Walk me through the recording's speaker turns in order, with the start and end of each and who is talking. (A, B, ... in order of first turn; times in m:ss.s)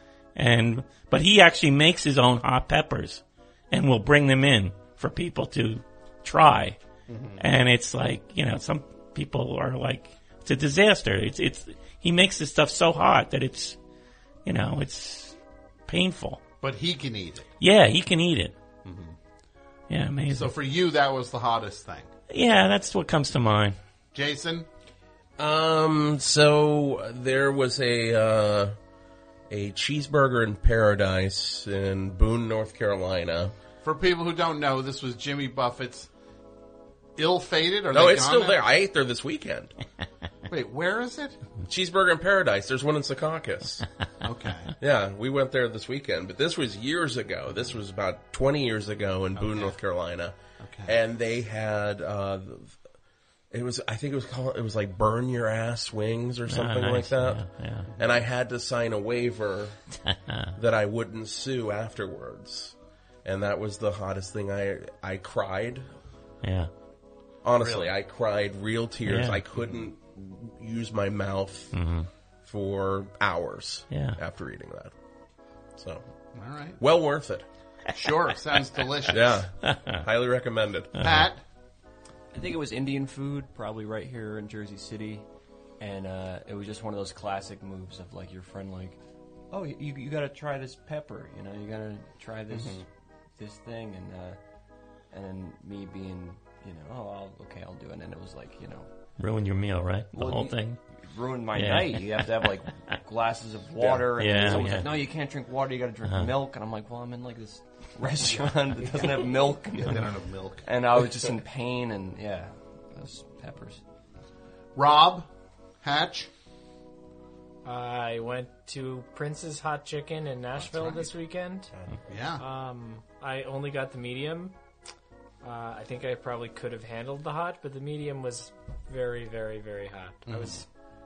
0:00.4-0:06.8 A
0:07.1-0:07.4 B
0:07.4-0:13.8 A
0:14.4-0:15.4 A
0:15.9-0:16.4 A
0:16.6-0:17.4 B
0:17.6-0:18.5 A
0:18.8-0:19.2 B
0:19.9-0:20.5 A
0:20.3-0:22.1 B
0:22.3-0:23.8 A
0:24.1-0:24.7 B
0:25.4-0:28.8 C
0:29.5-0:33.5 C
0:33.8-0:36.1 B
0:37.2-0:38.7 B
0:37.9-0:39.7 C
0:40.5-0:41.4 B
0:41.6-0:43.8 C
0:44.2-0:44.7 B
0:44.8-0:52.8 C
0:49.4-0:49.8 B
0:50.6-0:50.9 B
0:53.5-0:59.8 C
0:56.5-0:57.9 A
0:57.9-0:58.2 B
1:00.0-1:00.5 A
1:00.5-1:05.9 C
1:06.4-1:06.7 A
1:07.4-1:11.8 C
1:07.6-1:07.9 B
1:09.0-1:09.4 A
1:11.7-1:12.1 A
1:12.4-1:14.9 C
1:13.9-1:14.2 A
1:15.8-1:16.0 C
1:16.3-1:16.8 B
1:16.8-1:17.4 C
1:17.9-1:19.4 B
1:19.1-1:20.9 C
1:19.7-1:20.0 A
1:21.0-1:21.4 B
1:21.0-1:21.2 A
1:22.3-1:25.2 D
1:25.8-1:29.0 D
1:29.5-1:32.8 D
1:33.4-1:34.4 D
1:35.1-1:38.9 D
1:39.2-1:40.8 A
1:40.1-1:50.0 D
1:41.6-1:42.2 A
1:43.8-1:44.6 C
1:44.2-1:44.9 A
1:48.2-1:50.6 B
1:50.6-1:53.8 D
1:54.8-1:55.3 B
1:55.8-1:56.3 B
1:57.6-2:01.7 E
2:01.7-2:02.0 C
2:02.1-2:02.4 B
2:02.4-2:04.5 E
2:05.4-2:10.6 E
2:10.3-2:10.6 B